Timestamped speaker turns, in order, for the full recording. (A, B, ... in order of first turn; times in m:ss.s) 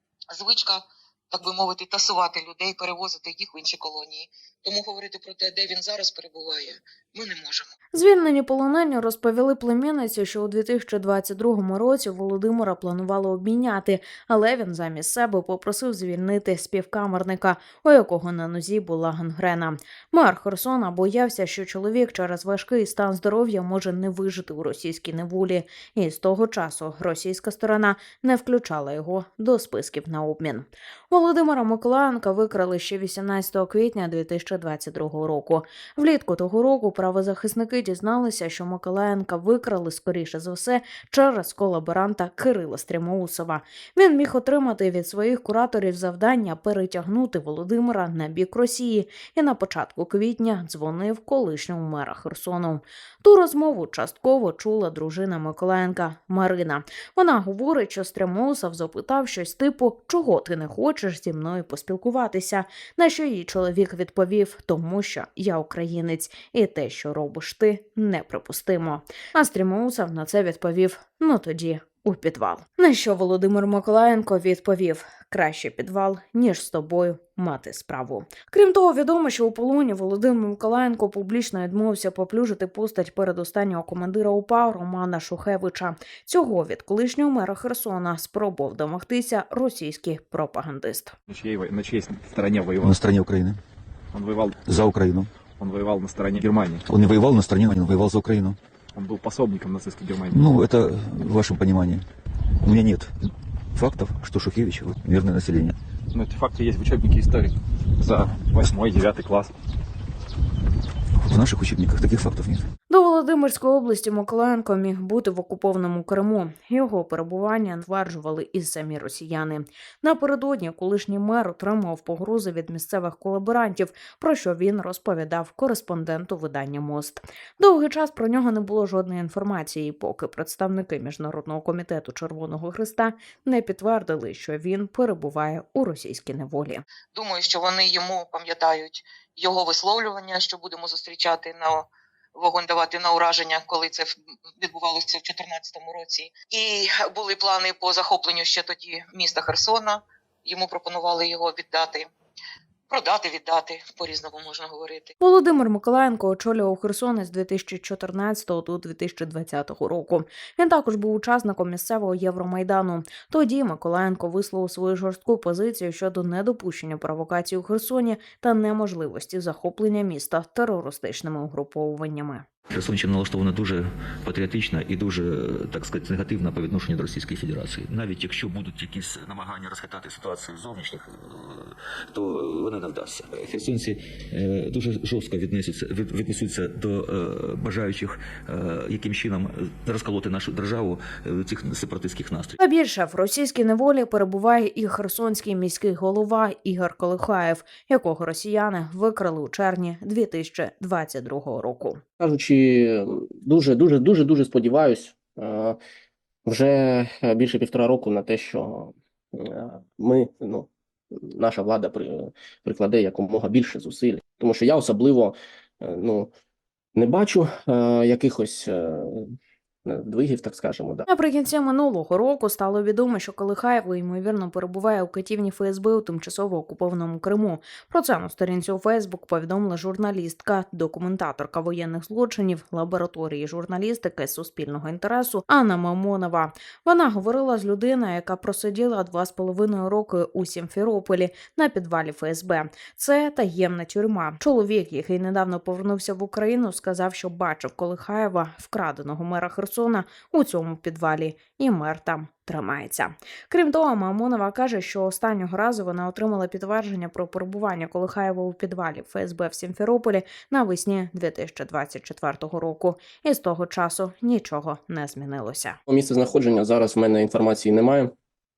0:00.3-0:07.7 A
0:07.9-1:31.1 B
1:31.3-1:33.0 C
1:32.8-1:33.6 D
1:34.1-1:34.6 C
1:34.6-1:35.3 D
1:35.6-1:36.8 C
1:36.8-1:38.6 D
1:38.9-1:40.5 C
1:40.3-1:42.0 D
1:42.6-1:43.1 D
1:43.7-1:45.8 D
1:46.1-1:49.5 C
1:51.2-1:52.6 D
1:52.9-2:16.8 B
2:17.1-2:32.1 A
2:32.9-2:35.1 A
2:35.2-2:52.4 B
2:52.7-3:12.6 D
3:12.6-3:22.0 B
3:22.2-3:25.8 E
3:26.4-3:36.3 E
3:37.0-3:39.3 E
3:39.8-3:41.1 E
3:41.1-4:25.8 B
4:25.9-4:28.1 E